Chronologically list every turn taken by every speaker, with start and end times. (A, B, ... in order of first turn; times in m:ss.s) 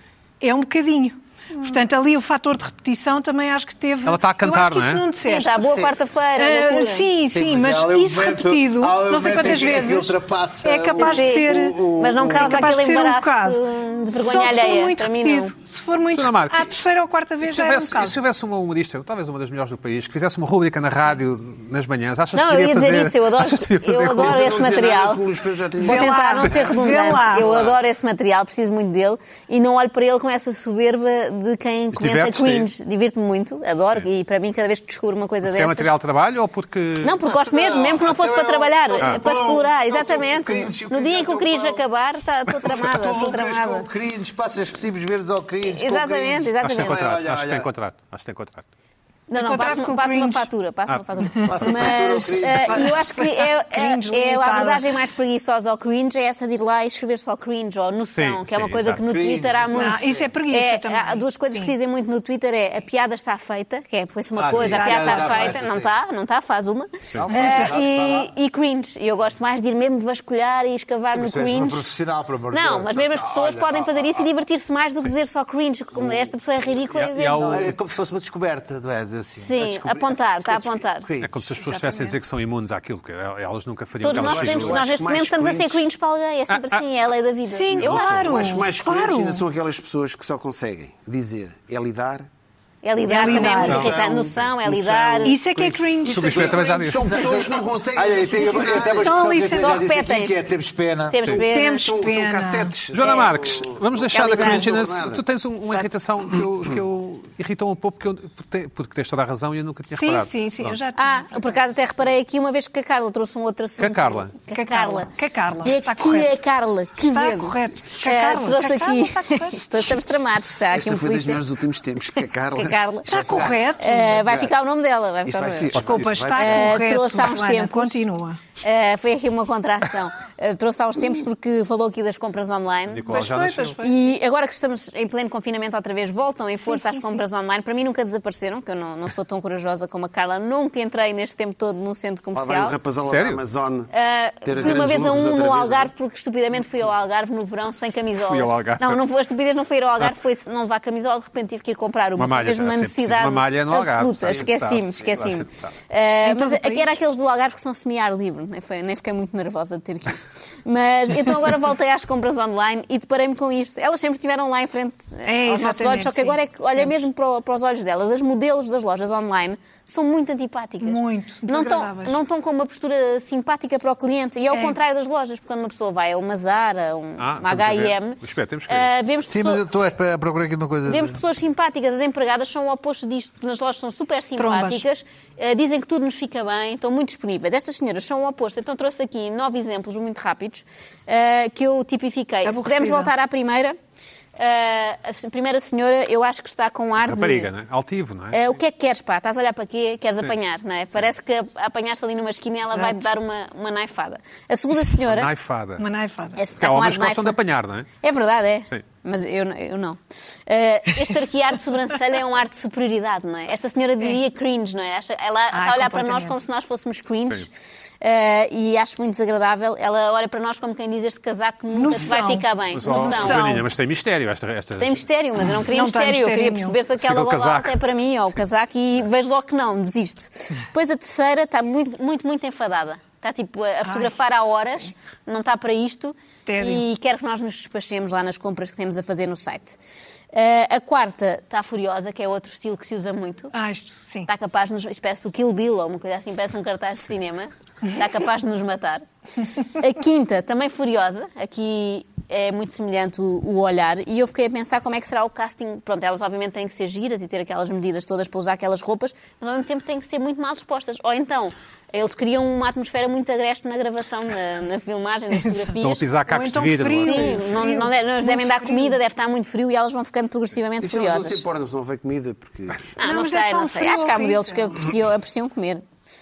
0:00.4-0:18.2 A
0:04.0-0:05.1 B
0:05.2-0:07.1 C
0:07.3-0:12.8 D
0:11.0-0:15.5 C
0:16.1-0:16.7 B
0:17.4-0:24.5 B
0:22.3-0:25.2 C
0:24.1-0:26.4 E
0:25.8-0:35.9 C
0:25.8-0:27.5 A
0:26.4-0:26.7 B
0:27.3-0:27.8 E
0:31.9-0:32.7 B
0:35.4-0:37.2 B
0:37.0-0:43.9 C
0:37.2-0:41.8 D
0:42.5-0:47.7 D
0:45.6-0:47.1 C
0:46.6-0:48.7 B
0:49.3-1:11.9 C
0:49.4-0:50.5 A
0:51.4-0:53.0 D
0:52.4-0:54.8 A
0:58.1-0:59.0 B
0:58.9-1:00.3 D
0:59.7-1:01.7 A
1:04.4-1:05.9 D
1:04.5-1:05.5 A
1:07.2-1:08.3 D
1:11.1-1:14.3 D
1:12.5-1:17.7 C
1:16.9-1:17.7 B
1:17.4-1:21.5 D
1:19.4-1:21.1 C
1:21.2-1:24.8 B
1:21.6-1:22.2 A
1:24.0-1:28.4 C
1:24.1-1:25.9 E
1:26.5-1:26.8 B
1:27.5-1:29.4 A
1:27.8-1:32.3 E
1:32.8-1:35.4 C
1:33.1-1:33.9 A
1:33.2-1:39.3 E
1:33.4-1:33.9 B
1:35.2-1:36.7 A
1:36.1-1:37.2 B
1:37.0-1:41.3 D
1:38.7-1:39.8 A
1:39.5-1:40.3 C
1:41.1-1:41.9 C
1:41.3-1:42.8 A
1:41.7-1:45.2 E
1:42.9-1:50.8 B
1:43.0-1:43.3 C
1:44.1-1:44.7 C
1:49.9-1:51.6 A
1:51.0-2:01.4 C
1:53.8-1:54.3 B
1:54.5-1:56.4 A
1:57.0-2:00.0 A
2:00.7-2:04.5 E
2:02.5-2:08.0 C
2:03.1-2:04.2 A
2:05.2-2:06.7 E
2:05.7-2:06.2 B
2:05.8-2:08.4 A
2:08.6-2:13.3 C
2:12.9-2:13.8 B
2:13.1-2:14.1 A
2:13.8-2:22.8 C
2:16.6-2:17.2 A
2:22.3-2:23.9 E
2:23.1-2:23.4 B
2:23.9-2:59.6 C
2:24.4-2:25.9 E
2:28.2-2:29.0 B
2:32.2-2:35.7 B
2:36.2-2:36.9 A
2:45.2-2:47.0 A
2:50.8-2:52.2 A
2:54.5-2:54.8 A
2:57.2-2:58.9 B
2:59.3-3:01.2 D
3:00.9-3:13.8 C
3:04.4-3:04.8 A
3:12.4-3:13.1 A
3:14.4-3:17.5 C
3:17.0-3:18.4 B
3:18.3-3:25.3 C
3:22.7-3:23.1 A
3:25.0-3:25.9 B
3:25.8-3:26.4 A
3:26.4-3:27.4 C
3:26.6-3:27.9 B
3:28.0-3:43.6 C
3:35.5-3:36.4 A
3:41.7-3:43.7 A
3:42.7-3:45.0 B
3:44.8-3:59.8 C
3:45.6-3:46.8 A
3:47.0-3:47.8 B
3:53.8-3:54.2 A
3:56.5-3:56.8 A
4:00.3-4:03.5 C
4:03.5-4:04.3 A
4:04.3-4:26.0 C
4:25.8-4:27.6 B
4:26.3-4:29.0 A
4:27.0-4:31.4 C
4:30.8-4:32.9 E
4:33.0-4:35.8 C
4:33.0-4:34.8 A